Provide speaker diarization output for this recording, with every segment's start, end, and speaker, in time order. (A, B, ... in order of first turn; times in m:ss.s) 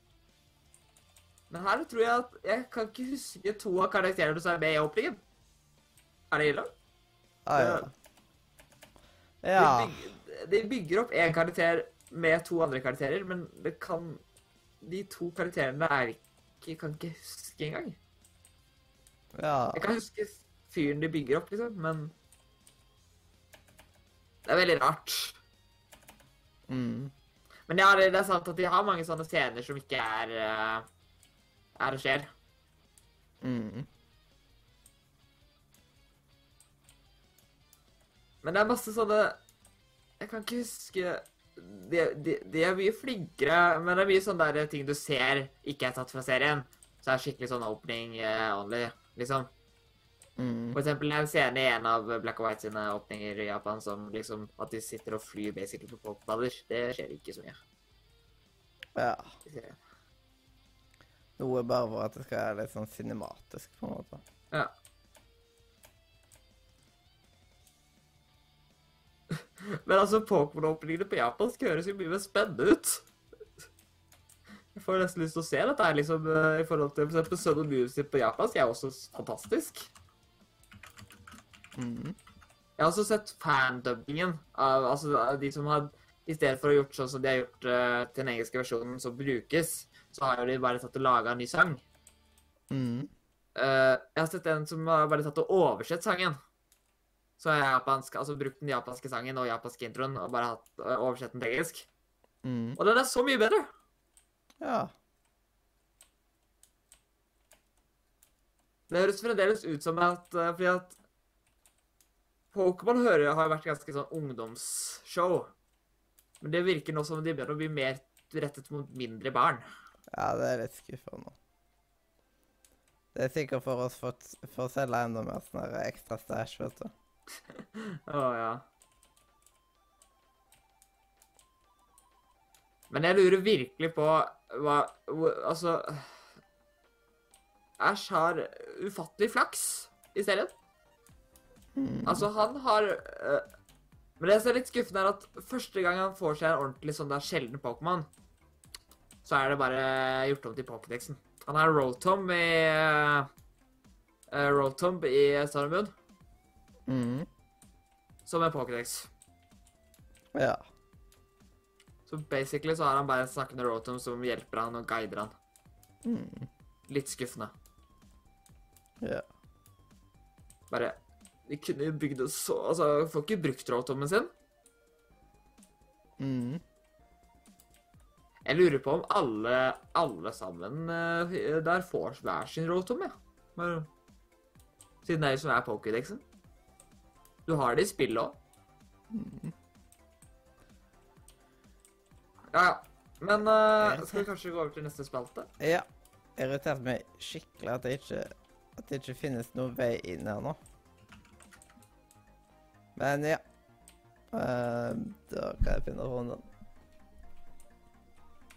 0:01.5-0:05.2 A
0:06.3-0:06.7 A
0:07.4-0:07.9 B
0:07.5-0:07.9 A
0:09.4-0:10.0 B
0:09.6-0:14.2 A
0:14.8-0:18.0 A
0:19.3-0:19.8 B
0:19.7-0:22.1 A
0:24.4-0:25.4 A
0:26.7-0:27.1 B
0:27.7-0:30.8 A
0:31.8-0:32.3 A
0:33.4-0:33.9 B
0:38.4-0:39.4 A
0:40.2-0:49.5 A
0:50.4-0:50.8 B
0:50.7-0:57.6 A
0:59.0-0:59.3 B
0:59.4-0:59.8 A
1:01.4-1:04.2 B
1:09.6-1:13.0 A
1:14.7-1:19.9 A
1:21.8-1:22.2 B
1:22.8-1:31.8 A
1:32.7-1:33.1 B
1:33.6-1:36.4 A
1:37.4-1:41.8 A
1:42.4-1:42.8 B
1:42.8-1:43.7 A
1:44.6-1:44.9 B
1:48.9-1:51.0 A
1:52.5-1:55.5 A
1:56.4-1:59.6 A
2:00.1-2:01.3 B
2:03.1-2:06.9 B
2:07.8-2:08.6 A
2:12.9-2:16.1 A
2:17.8-2:20.5 A
2:21.8-2:22.2 B
2:22.0-2:23.4 A
2:24.2-2:28.1 A
2:29.2-2:33.3 A
2:34.3-2:35.9 A
2:36.9-2:37.3 B
2:38.2-2:39.1 A
2:40.3-2:40.6 B
2:42.1-2:45.3 A
2:46.0-2:46.5 B
2:46.9-2:47.5 A
2:50.7-2:51.0 A
2:51.5-2:54.3 A
2:56.2-2:56.6 B
2:58.4-3:03.9 A
3:05.0-3:06.2 A
3:07.5-3:08.4 A
3:09.1-3:09.5 B
3:12.5-3:15.5 A
3:13.8-3:14.2 B
3:15.6-3:20.6 B
3:23.0-3:23.4 B
3:24.3-3:26.4 B